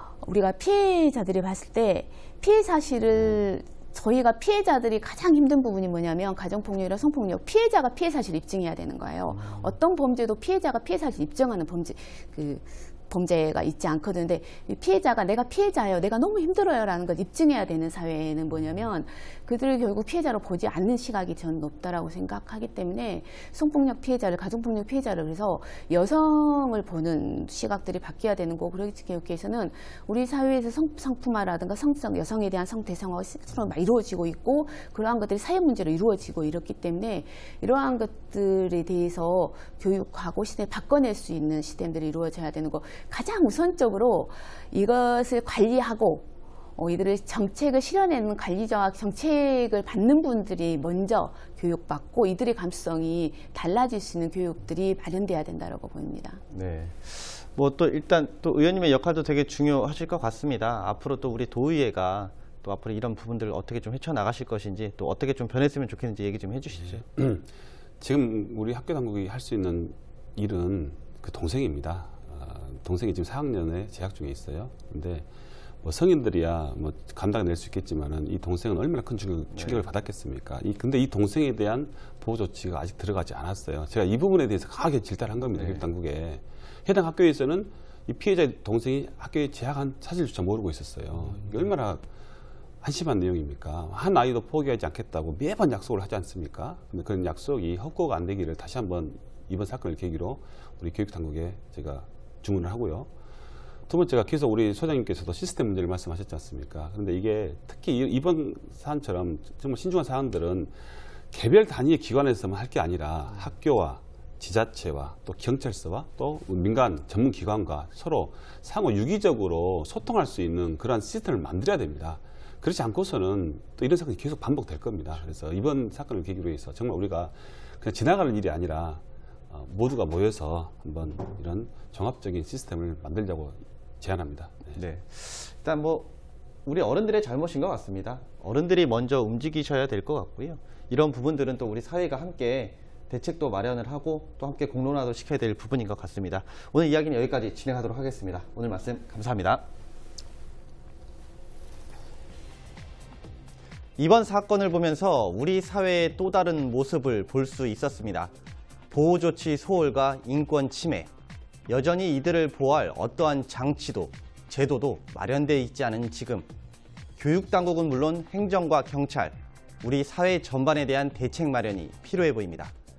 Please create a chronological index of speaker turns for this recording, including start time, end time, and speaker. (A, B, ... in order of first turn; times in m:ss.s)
0:00.2-0:46.3 A
0:09.3-0:09.8 B
0:46.8-0:56.4 A
0:56.5-1:07.0 B
1:07.0-1:07.5 C
1:08.0-1:15.3 C
1:15.8-1:32.0 C
1:19.5-1:19.8 B
1:25.6-1:25.9 B
1:32.8-1:43.1 C
1:43.9-1:50.7 C
1:51.3-2:14.8 C
2:14.8-2:16.1 B
2:16.6-2:29.6 B
2:34.0-2:38.3 B
2:38.9-2:41.1 B
2:41.7-2:46.5 B
2:47.2-2:52.7 B